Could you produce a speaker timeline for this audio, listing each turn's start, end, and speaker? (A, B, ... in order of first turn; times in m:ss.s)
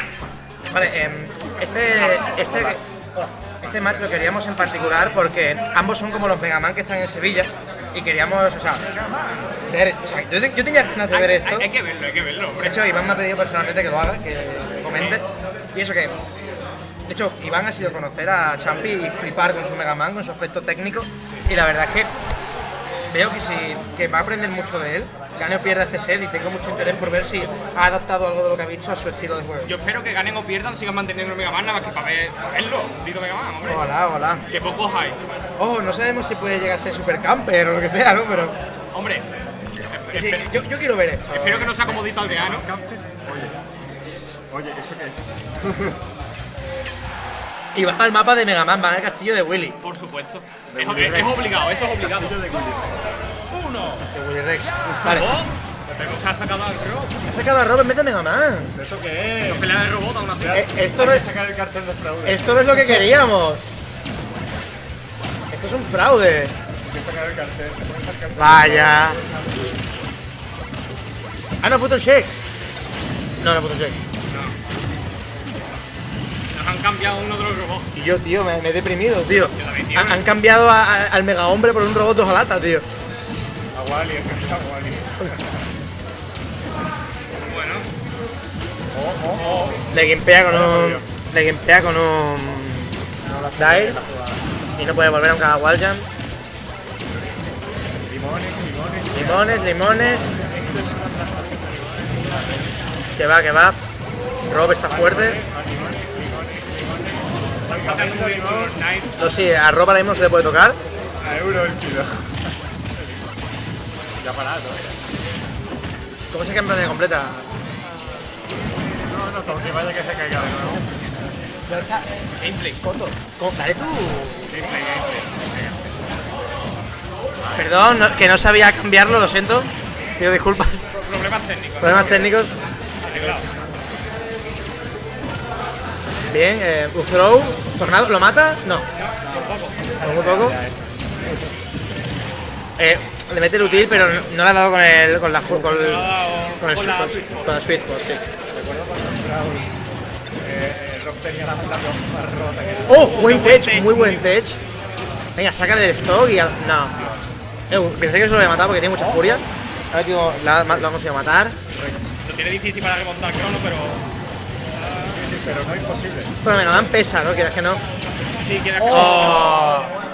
0:00.7-0:08.8 A
0:02.3-0:02.7 B
0:09.6-0:11.7 A
0:11.1-0:12.9 C
0:12.6-0:16.1 A
0:14.9-0:15.2 C
0:17.1-0:22.1 A
0:23.1-0:29.7 A
0:29.6-0:33.9 C
0:33.6-0:34.4 A
0:34.5-0:35.2 C
0:35.6-0:38.6 A
0:38.9-0:39.2 C
0:39.8-0:40.5 C
0:40.1-0:42.0 A
0:41.3-0:42.7 C
0:42.1-0:43.6 B
0:44.5-0:46.0 B
0:47.7-0:49.8 A
0:49.8-0:52.4 C
0:50.7-0:53.0 B
0:53.5-0:54.1 C
0:54.1-0:55.3 A
0:55.0-0:57.2 C
0:57.2-0:58.7 A
0:58.7-0:59.7 B
0:59.4-1:00.6 C
1:00.4-1:03.1 B
1:00.5-1:01.3 A
1:02.2-1:03.7 A
1:05.5-1:06.5 A
1:06.8-1:09.3 B
1:08.4-1:09.2 A
1:11.6-1:12.3 A
1:13.4-1:14.0 A
1:14.3-1:14.5 C
1:16.5-1:17.9 C
1:17.9-1:22.8 A
1:19.3-1:20.2 C
1:23.7-1:25.5 B
1:27.4-1:27.9 C
1:28.9-1:29.8 B
1:29.3-1:29.8 C
1:29.9-1:33.0 A
1:30.4-1:31.1 B
1:33.2-1:34.4 B
1:33.6-1:34.0 A
1:34.8-1:36.1 A
1:38.0-1:42.7 B
1:39.1-1:40.3 A
1:43.2-1:43.8 A
1:44.5-1:45.4 A
1:44.6-1:48.8 B
1:47.7-1:49.2 C
1:49.2-1:50.8 A
1:51.2-1:53.3 B
1:54.2-1:54.9 B
1:56.3-1:57.5 A
1:58.8-2:00.8 B
2:01.7-2:04.5 A
2:04.5-2:06.1 B
2:07.4-2:07.8 B
2:07.5-2:10.8 A
2:10.9-2:12.3 C
2:11.8-2:12.5 A
2:13.0-2:13.4 C
2:13.0-2:13.7 B
2:16.3-2:18.8 A
2:18.9-2:19.9 C
2:19.2-2:21.5 B
2:20.0-2:20.6 A
2:22.8-2:28.2 A
2:23.6-2:24.3 C
2:25.5-2:27.6 C
2:28.5-2:29.7 B
2:30.4-2:33.1 B
2:32.9-2:34.6 A
2:33.0-2:34.3 C
2:35.4-2:37.0 A
2:37.7-2:41.6 A
2:38.9-2:39.3 B
2:41.7-2:42.2 B
2:42.2-2:44.0 C
2:44.8-2:45.2 C
2:45.1-2:46.3 B
2:46.4-2:47.8 A
2:48.4-2:49.8 C
2:48.8-2:49.9 A